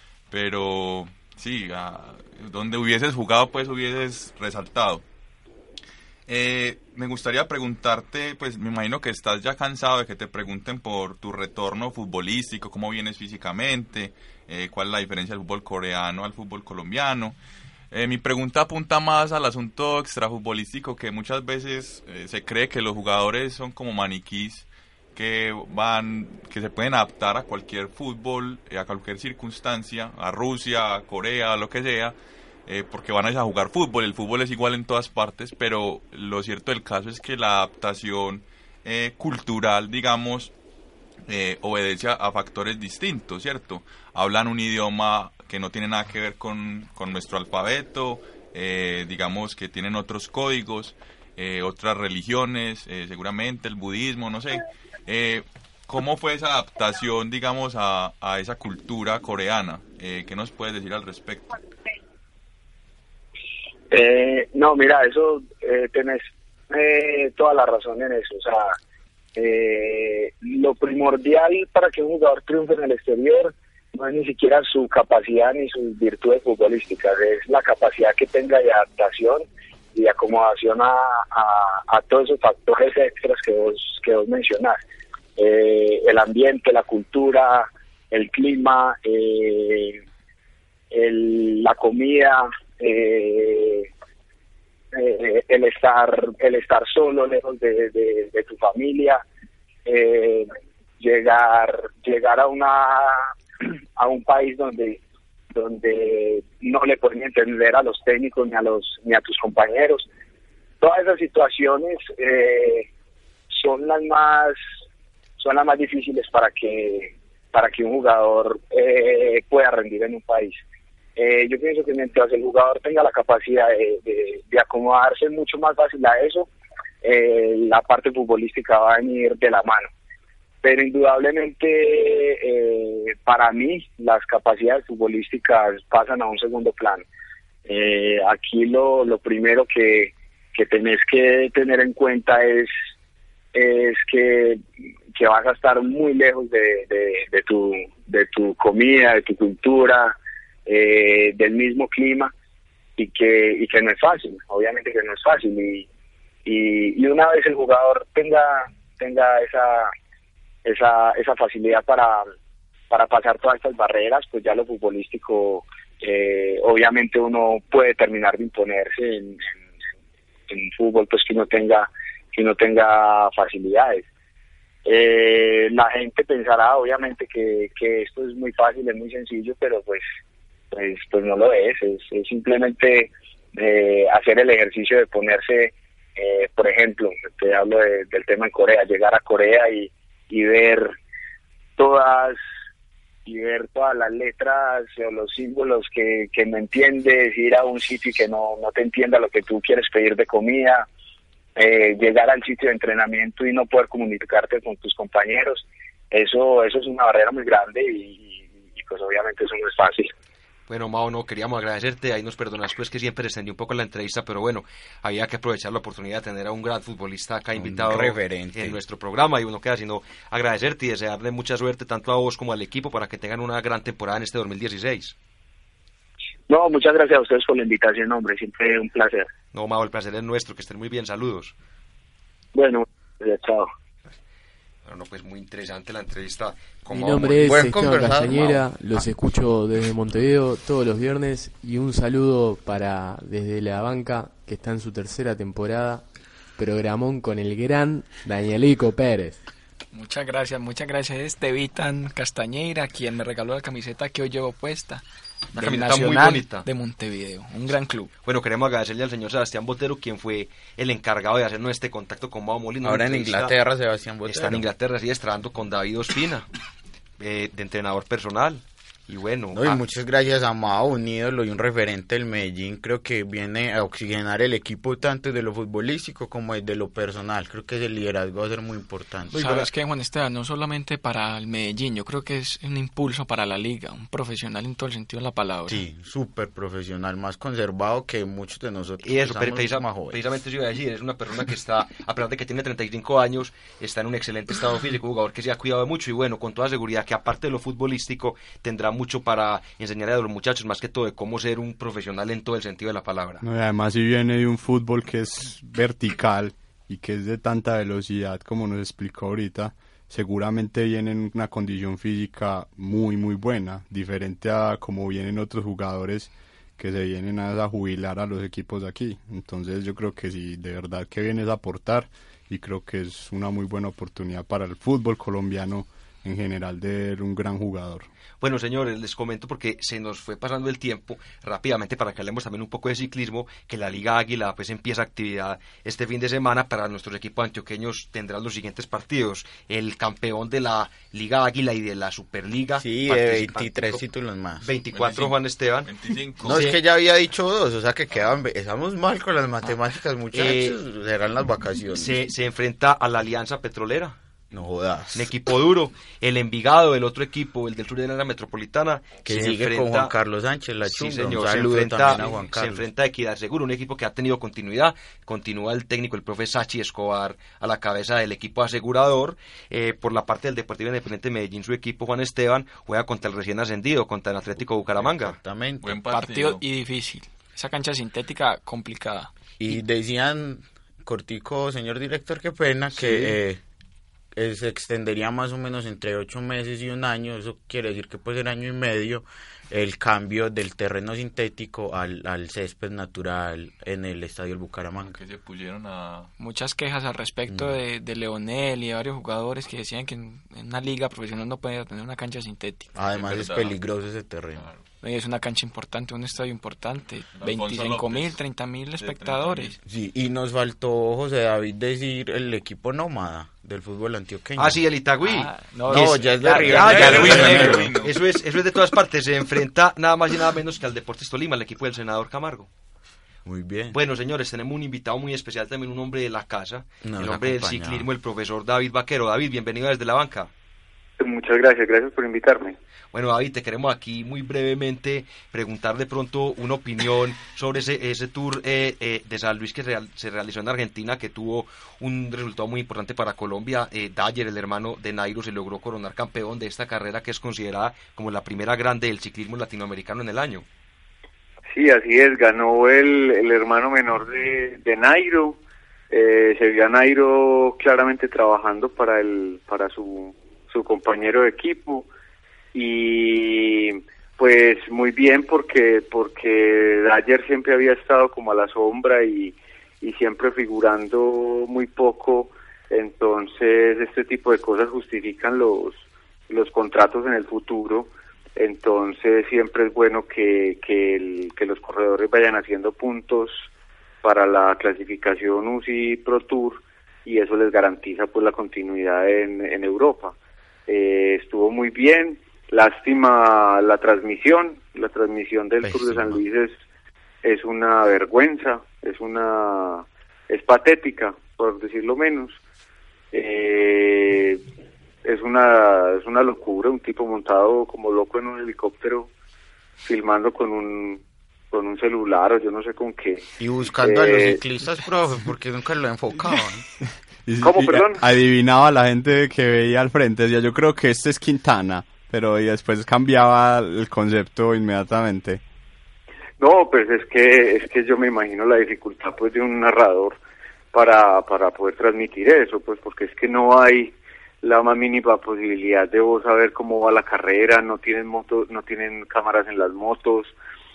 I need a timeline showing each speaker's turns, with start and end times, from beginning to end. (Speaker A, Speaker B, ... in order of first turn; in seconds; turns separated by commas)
Speaker A: 0.3-5.0, Speaker A: 6.3-17.4, Speaker A: 17.9-32.1, Speaker A: 32.7-40.5, Speaker A: 41.3-61.5, Speaker B: 63.9-68.8, Speaker B: 69.4-84.8, Speaker B: 85.4-90.0, Speaker B: 90.9-93.9, Speaker B: 94.9-99.2, Speaker B: 99.9-103.3, Speaker B: 104.0-105.0, Speaker B: 105.5-110.1, Speaker B: 110.8-112.9, Speaker B: 113.5-114.6, Speaker B: 115.4-120.6, Speaker B: 121.2-126.5, Speaker B: 127.0-129.9, Speaker B: 130.6-137.1, Speaker B: 137.7-142.8, Speaker B: 143.5-144.6, Speaker B: 145.2-150.2, Speaker B: 150.7-152.3, Speaker B: 153.0-155.9, Speaker B: 156.5-159.9, Speaker B: 160.7-162.3, Speaker B: 162.9-169.6, Speaker B: 170.5-174.1, Speaker B: 174.9-180.1, Speaker B: 180.7-191.0, Speaker B: 191.8-192.4, Speaker B: 193.3-200.9, Speaker B: 201.6-210.1, Speaker C: 210.7-225.2, Speaker D: 217.6-218.8, Speaker B: 226.5-229.3, Speaker C: 229.5-231.5, Speaker B: 232.6-233.7, Speaker C: 234.8-238.4, Speaker E: 236.9-249.4, Speaker D: 237.4-238.8, Speaker F: 249.9-255.0, Speaker F: 255.5-258.1, Speaker C: 255.6-256.6, Speaker C: 258.2-263.5, Speaker D: 262.8-264.7, Speaker C: 264.3-266.5, Speaker C: 267.2-269.8, Speaker D: 269.5-279.7, Speaker F: 279.3-285.8, Speaker D: 285.7-290.2, Speaker C: 289.0-303.4, Speaker G: 303.4-328.1, Speaker C: 328.4-344.0, Speaker D: 342.8-344.7, Speaker C: 344.6-345.9, Speaker A: 344.9-346.8, Speaker D: 346.4-352.2, Speaker C: 346.5-346.8, Speaker C: 350.3-350.8, Speaker C: 351.9-354.2, Speaker D: 354.5-355.3, Speaker C: 355.1-360.1, Speaker D: 359.3-362.9, Speaker C: 360.9-375.4, Speaker D: 375.0-376.0, Speaker A: 375.8-376.6, Speaker F: 376.1-379.3, Speaker D: 379.6-383.6, Speaker D: 384.4-395.2, Speaker A: 395.0-396.3, Speaker F: 396.4-402.9, Speaker D: 397.5-397.8, Speaker D: 402.9-404.7, Speaker A: 403.1-403.8, Speaker A: 404.6-404.8, Speaker F: 405.0-409.8, Speaker A: 407.4-408.4, Speaker A: 409.0-409.8, Speaker D: 409.9-414.8, Speaker C: 414.6-422.7, Speaker F: 415.2-417.8, Speaker D: 415.9-417.9, Speaker A: 416.7-418.1, Speaker D: 423.4-424.0, Speaker C: 423.9-430.5, Speaker D: 427.0-428.1, Speaker H: 431.2-432.8, Speaker C: 433.1-450.6, Speaker H: 451.7-455.6, Speaker H: 456.1-462.1, Speaker H: 462.7-483.7, Speaker H: 484.2-490.4, Speaker H: 490.9-496.8, Speaker D: 495.8-496.4, Speaker H: 497.4-502.6, Speaker H: 503.3-504.6, Speaker H: 505.2-509.3, Speaker H: 510.0-513.5, Speaker D: 513.6-516.8, Speaker H: 514.0-514.6, Speaker G: 517.5-525.6, Speaker H: 517.6-518.2, Speaker H: 526.6-530.4, Speaker H: 530.9-540.5